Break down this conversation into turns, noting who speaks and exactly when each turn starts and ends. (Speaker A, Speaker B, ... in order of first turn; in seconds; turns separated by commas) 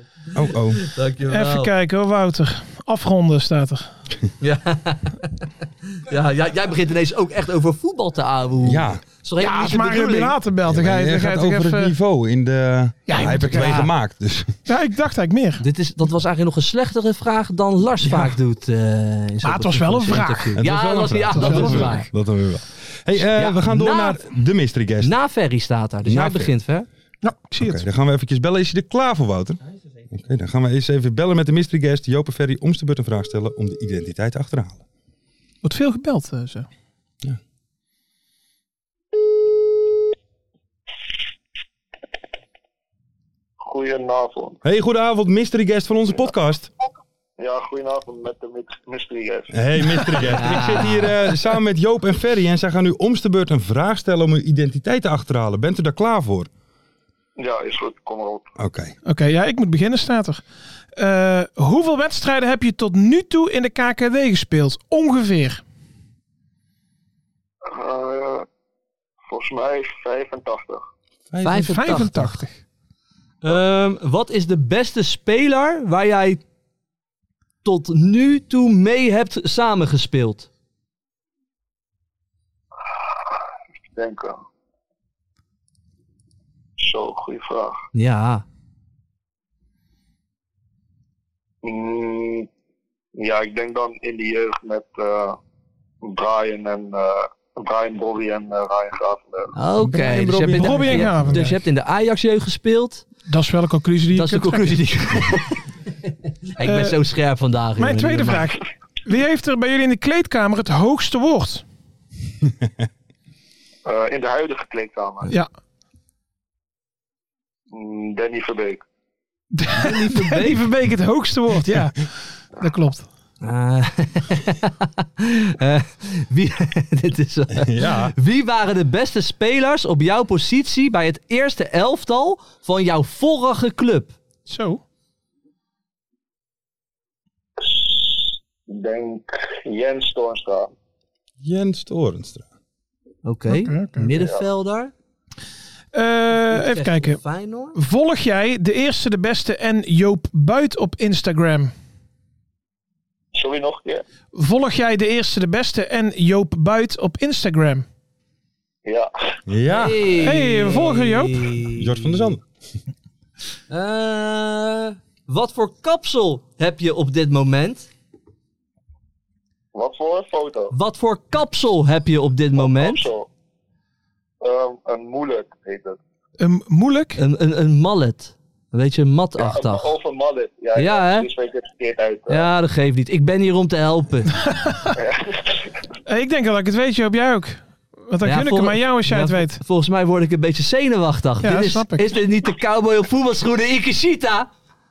Speaker A: 0.3-0.9, Speaker B: 0.8-1.7, Speaker C: 1.3-3.9, Speaker B: 4.4-10.3, Speaker A: 8.6-9.0, Speaker C: 9.4-11.9, Speaker A: 10.7-14.5, Speaker C: 13.1-13.9, Speaker C: 14.7-15.6, Speaker B: 15.6-22.1, Speaker C: 19.4-20.6, Speaker A: 20.6-25.1, Speaker C: 21.3-22.0, Speaker B: 23.3-24.2, Speaker B: 25.0-26.9, Speaker A: 26.0-26.5, Speaker C: 27.2-27.8, Speaker A: 27.5-34.8, Speaker C: 35.6-36.7, Speaker D: 43.6-44.6, Speaker A: 44.6-46.7, Speaker D: 47.4-50.4, Speaker A: 49.5-56.5, Speaker B: 50.3-51.1, Speaker D: 57.4-58.5, Speaker A: 58.6-58.9, Speaker C: 59.0-60.4, Speaker C: 61.0-65.6, Speaker D: 67.7-68.5, Speaker D: 69.3-70.8, Speaker A: 71.3-71.8, Speaker B: 71.4-72.4, Speaker C: 71.5-72.6, Speaker B: 73.4-76.4, Speaker B: 77.6-80.5, Speaker D: 83.9-84.4, Speaker D: 86.8-87.8, Speaker B: 87.9-88.4, Speaker D: 91.6-92.5, Speaker D: 93.2-95.4, Speaker D: 96.0-99.5, Speaker B: 99.5-103.0, Speaker A: 99.8-101.4, Speaker C: 100.5-101.6, Speaker C: 103.3-104.8, Speaker B: 104.1-105.6, Speaker B: 106.5-108.5, Speaker C: 106.6-107.0, Speaker C: 107.8-111.6, Speaker D: 113.8-115.3, Speaker D: 117.7-118.8, Speaker C: 119.5-123.0, Speaker B: 119.7-120.6, Speaker B: 123.4-134.1, Speaker A: 127.5-128.1, Speaker C: 134.5-134.8, Speaker D: 137.6-140.7, Speaker A: 141.4-142.4, Speaker B: 143.2-144.9, Speaker C: 143.5-144.1, Speaker D: 144.1-144.4, Speaker C: 145.9-147.2, Speaker B: 146.5-147.8, Speaker C: 147.7-151.7, Speaker D: 153.3-154.0, Speaker C: 154.3-157.8, Speaker D: 158.8-159.1, Speaker A: 159.5-160.2, Speaker B: 159.7-162.3, Speaker C: 160.2-161.5, Speaker A: 161.7-162.4, Speaker B: 163.7-167.9, Speaker D: 169.7-170.7, Speaker B: 170.7-173.1, Speaker D: 172.6-173.3, Speaker D: 174.4-176.0, Speaker C: 176.4-177.2, Speaker B: 177.2-179.9, Speaker D: 179.4-182.4, Speaker B: 180.8-181.3, Speaker B: 182.3-184.4, Speaker C: 184.5-184.8, Speaker D: 184.9-185.7, Speaker C: 186.1-189.6, Speaker B: 188.2-194.5, Speaker C: 191.4-192.0